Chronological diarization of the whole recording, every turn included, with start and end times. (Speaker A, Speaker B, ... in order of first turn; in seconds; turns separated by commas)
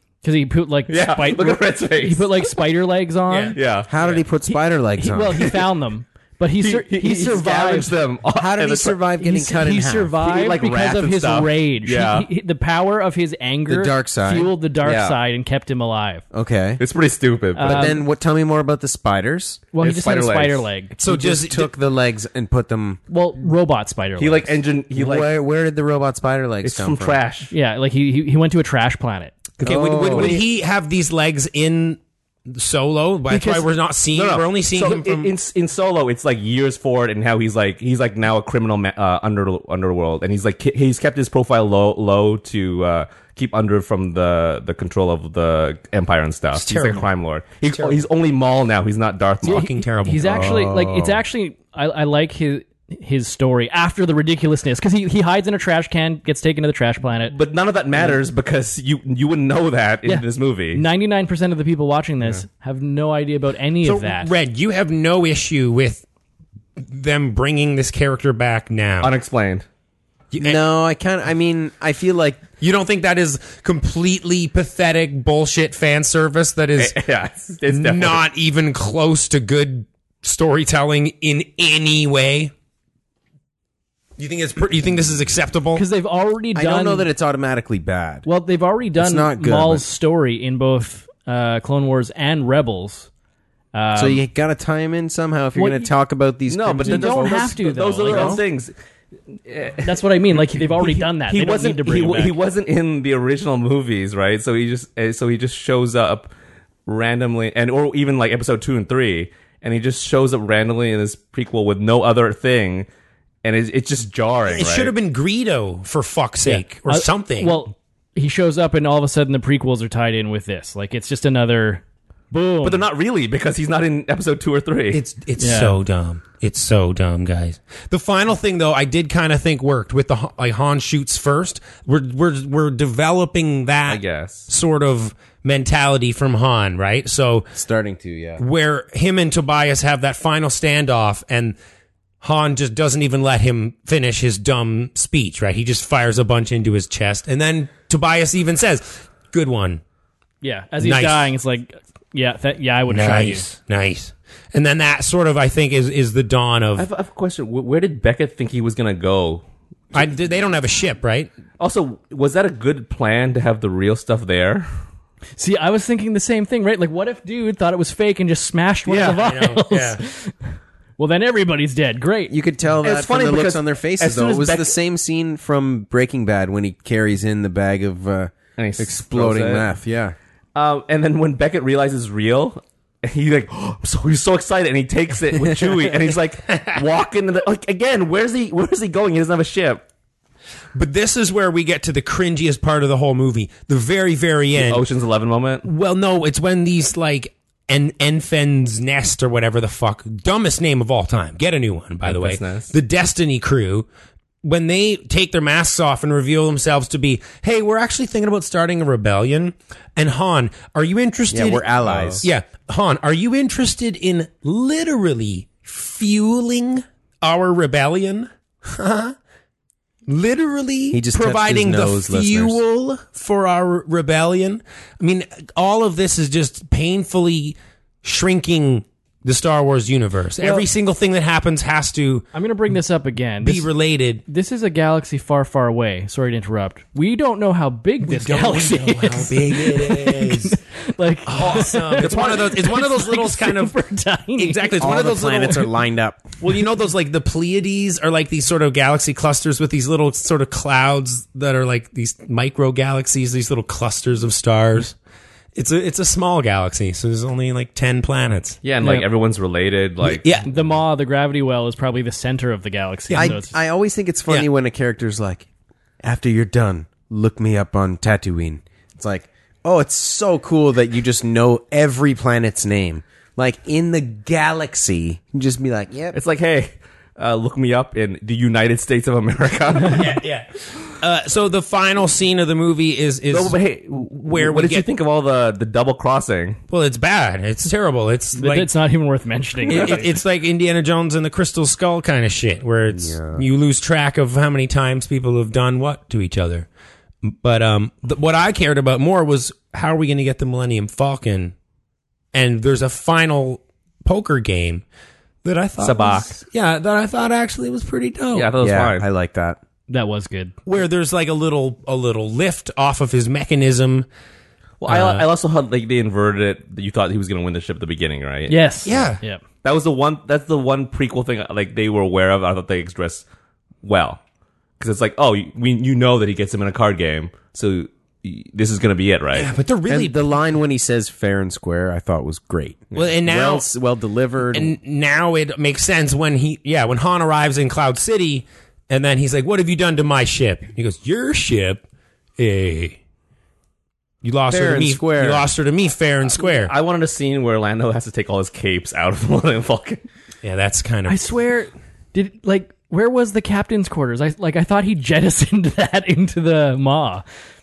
Speaker A: 0.2-3.6, Speaker B: 0.9-2.5, Speaker C: 3.3-3.6, Speaker B: 3.5-3.9, Speaker D: 3.9-5.5, Speaker A: 4.5-7.9, Speaker B: 6.6-9.0, Speaker D: 8.3-10.2, Speaker A: 9.2-16.2, Speaker B: 10.2-12.3, Speaker D: 13.7-14.5, Speaker B: 14.8-15.2, Speaker D: 16.3-16.8, Speaker B: 16.8-18.0, Speaker A: 17.6-18.0, Speaker D: 17.6-19.6, Speaker A: 19.7-20.9, Speaker B: 19.8-20.7, Speaker C: 21.0-21.7, Speaker D: 21.0-23.0, Speaker A: 23.1-24.6, Speaker B: 24.2-25.3, Speaker D: 24.9-27.2, Speaker B: 26.6-27.5, Speaker A: 27.5-29.4, Speaker B: 29.6-30.4, Speaker D: 29.6-30.4, Speaker C: 29.6-35.3, Speaker A: 33.3-33.7, Speaker B: 34.1-49.7, Speaker C: 46.5-47.1, Speaker C: 47.7-48.0, Speaker C: 49.4-50.5, Speaker A: 49.4-57.3, Speaker D: 50.2-51.2, Speaker B: 57.3-60.8, Speaker A: 60.0-64.3, Speaker C: 63.8-66.0, Speaker C: 66.8-69.1, Speaker B: 69.0-69.6, Speaker C: 70.3-70.6, Speaker D: 70.4-72.5, Speaker C: 72.6-76.9, Speaker B: 76.8-78.2, Speaker C: 77.7-82.5, Speaker C: 84.2-85.8, Speaker A: 85.7-87.1, Speaker D: 86.5-88.3, Speaker A: 88.2-93.1, Speaker D: 89.0-89.8, Speaker A: 93.7-94.2, Speaker D: 93.9-98.4, Speaker A: 95.5-95.9, Speaker B: 96.5-98.7, Speaker A: 96.8-98.4, Speaker B: 99.5-106.3, Speaker A: 99.8-102.3, Speaker B: 106.8-112.9, Speaker B: 113.4-114.9, Speaker C: 114.5-117.6, Speaker A: 116.4-122.8, Speaker B: 122.6-125.0, Speaker C: 124.9-137.5, Speaker A: 125.4-125.8, Speaker B: 133.9-134.5, Speaker D: 137.5-138.4, Speaker C: 138.4-141.6, Speaker C: 142.2-149.8, Speaker A: 150.4-153.4, Speaker C: 150.8-151.3, Speaker C: 152.9-156.9, Speaker B: 156.8-159.4, Speaker C: 159.9-161.3, Speaker B: 161.6-164.7, Speaker A: 165.4-170.3, Speaker B: 168.9-169.2, Speaker C: 169.0-170.0, Speaker A: 171.0-172.3, Speaker D: 172.3-180.2, Speaker B: 172.8-174.8, Speaker B: 178.6-179.7, Speaker B: 180.5-189.8, Speaker C: 190.7-194.8, Speaker B: 194.5-195.7, Speaker C: 195.6-203.9, Speaker B: 202.0-202.7, Speaker C: 204.4-211.6, Speaker D: 211.3-212.3, Speaker B: 211.8-212.2, Speaker C: 212.2-219.1, Speaker C: 220.1-232.3, Speaker D: 220.9-222.6, Speaker A: 230.4-230.7, Speaker A: 232.3-233.7, Speaker C: 233.4-234.2, Speaker A: 234.2-244.9, Speaker C: 238.0-240.6, Speaker C: 241.2-243.8, Speaker C: 244.4-245.7, Speaker D: 244.8-246.3, Speaker C: 246.4-254.9, Speaker C: 255.5-258.6, Speaker B: 258.6-260.7, Speaker A: 258.8-259.1, Speaker C: 260.0-260.5, Speaker A: 260.5-263.5, Speaker C: 263.1-263.3, Speaker D: 263.1-265.5, Speaker D: 266.0-276.2, Speaker B: 276.1-280.2, Speaker C: 279.9-283.6, Speaker B: 283.3-286.6, Speaker C: 284.1-284.9, Speaker C: 286.7-288.7, Speaker A: 288.4-290.0, Speaker C: 289.7-296.7, Speaker B: 289.7-290.1, Speaker D: 292.9-293.4, Speaker C: 297.2-301.5, Speaker C: 302.3-304.8, Speaker C: 305.4-308.5, Speaker B: 305.8-306.3, Speaker B: 308.3-309.0, Speaker D: 308.6-309.6, Speaker A: 309.9-310.5, Speaker C: 310.6-314.1, Speaker B: 314.8-319.1, Speaker C: 314.9-315.2, Speaker A: 318.5-319.4, Speaker C: 318.8-319.2, Speaker B: 319.6-323.2, Speaker B: 323.8-324.2, Speaker B: 324.8-329.5, Speaker C: 329.3-330.4, Speaker D: 329.9-334.7, Speaker C: 332.9-333.6, Speaker C: 334.5-341.8, Speaker C: 342.4-343.0, Speaker C: 344.2-346.7, Speaker D: 344.5-345.5, Speaker B: 346.2-350.0, Speaker C: 350.4-351.3, Speaker A: 351.1-357.2